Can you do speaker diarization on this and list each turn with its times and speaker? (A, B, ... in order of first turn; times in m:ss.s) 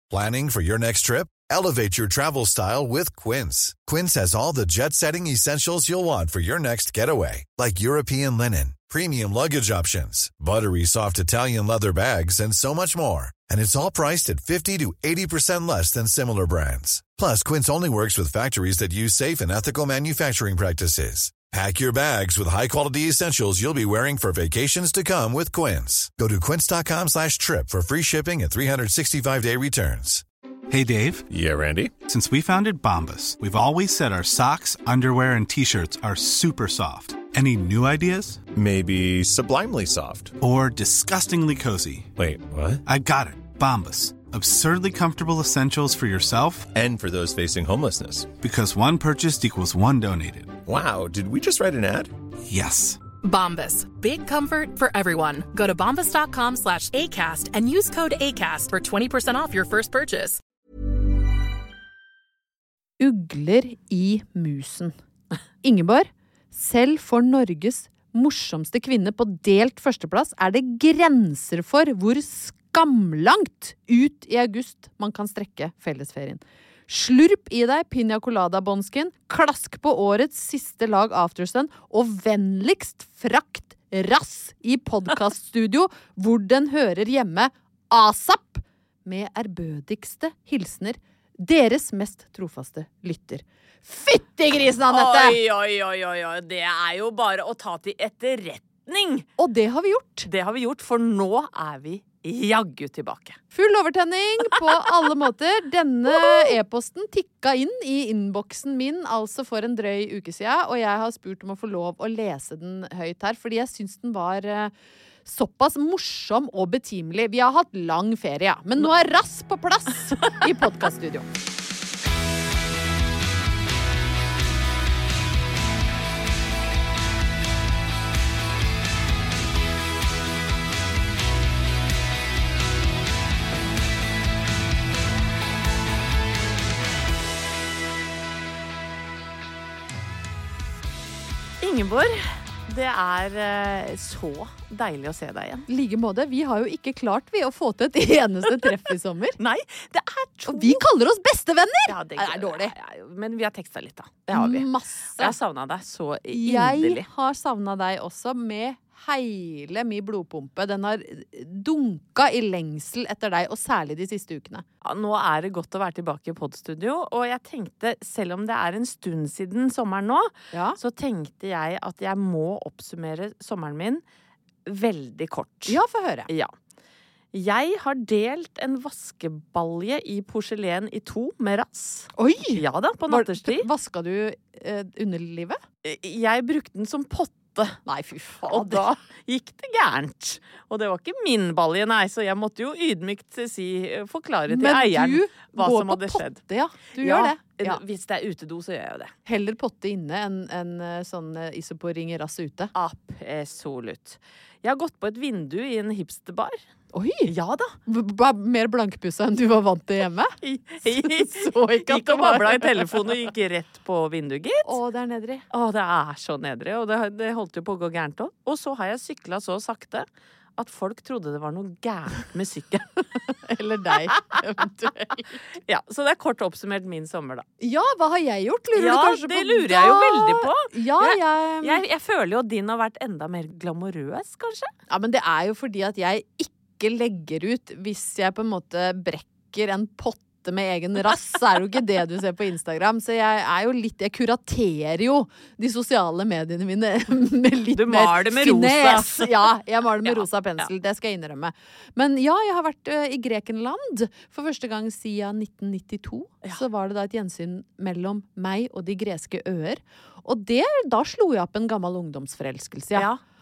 0:00.1-0:30.2 A
0:30.7-0:31.3 B
0:31.3-0:32.0 C
0:32.0-0:38.5 B
0:38.5-0:40.4 C
0:40.4-0:42.1 B
0:42.2-0:42.8 C
0:42.8-0:46.7 B
0:46.7-0:48.3 C
0:48.4-0:50.6 B
0:50.6-0:52.1 C
0:52.5-0:53.0 B
0:53.2-1:00.4 D
1:03.0-1:04.9 E
1:05.6-1:35.4 E
1:34.9-1:39.2 F
1:39.4-1:40.3 E
1:40.3-1:43.4 F
1:43.5-1:54.7 E
1:44.4-1:45.1 F
1:46.1-1:46.6 F
1:55.2-2:01.2 E
2:21.6-2:25.7 F
2:25.7-2:29.4 E
2:29.4-2:30.8 F
2:30.5-2:32.7 E
2:31.9-2:34.7 F
2:34.3-2:35.3 E
2:35.2-2:37.0 F
2:36.3-2:44.6 E
2:44.8-2:54.0 F
2:50.5-2:50.8 E
2:54.7-2:56.5 F
2:55.7-2:56.3 E
2:57.3-3:03.7 F
3:02.2-3:05.6 E
3:05.8-3:07.8 F
3:07.8-3:08.8 E
3:08.5-3:16.4 F
3:14.5-3:17.8 E
3:17.0-3:19.1 F
3:19.2-3:22.7 E
3:22.8-3:26.6 F
3:26.9-3:27.3 E
3:27.3-3:27.8 F
3:27.8-3:30.3 E
3:30.4-3:34.8 F
3:30.9-3:33.1 E
3:34.6-3:35.4 E
3:35.5-3:40.0 F
3:40.6-3:42.9 F
3:43.4-3:45.4 E
3:45.6-3:47.4 F
3:47.6-3:51.8 E
3:48.7-3:54.7 F
3:54.9-4:23.1 E
4:07.7-4:09.5 F
4:10.0-4:10.7 F